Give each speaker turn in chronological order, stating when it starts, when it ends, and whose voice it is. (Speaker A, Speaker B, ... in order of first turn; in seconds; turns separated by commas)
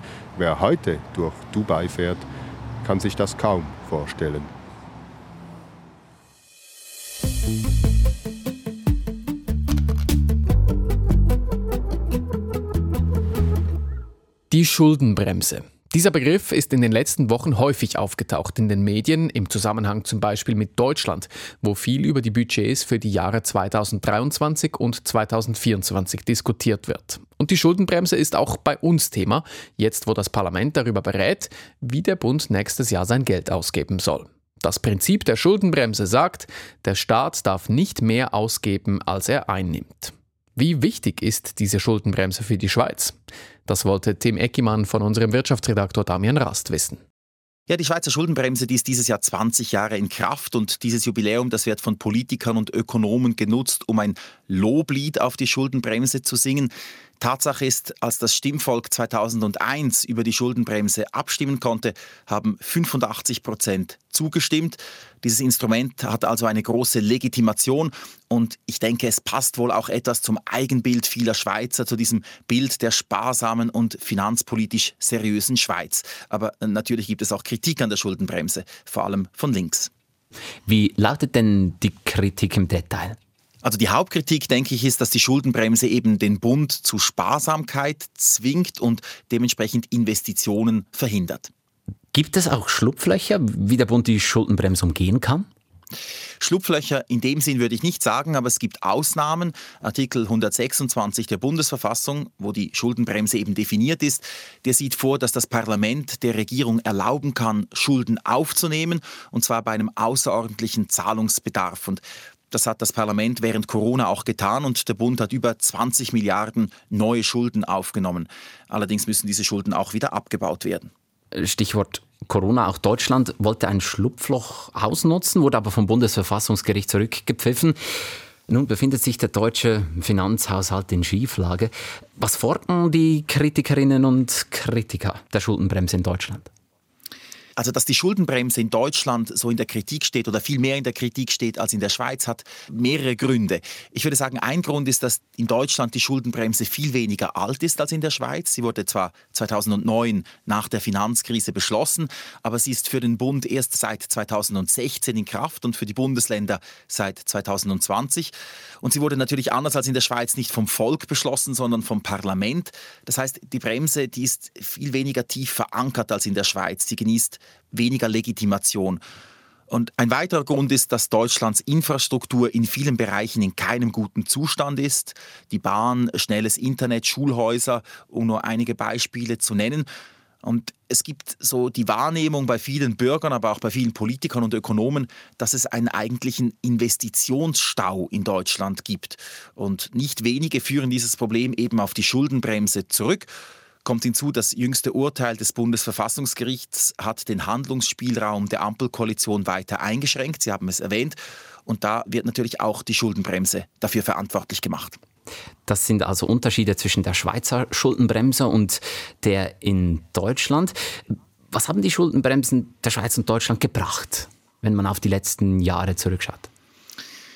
Speaker A: 0.3-2.3, Speaker A: 2.8-4.5, Speaker B: 14.5-47.0, Speaker C: 47.7-79.9, Speaker D: 80.7-83.2, Speaker C: 83.6-91.5, Speaker D: 92.1-95.5, Speaker C: 96.4-120.9, Speaker D: 121.3-127.8, Speaker D: 128.5-136.5, Speaker C: 137.6-169.0, Speaker C: 169.7-179.9, Speaker C: 180.4-193.3, Speaker C: 193.8-205.0, Speaker D: 205.7-216.5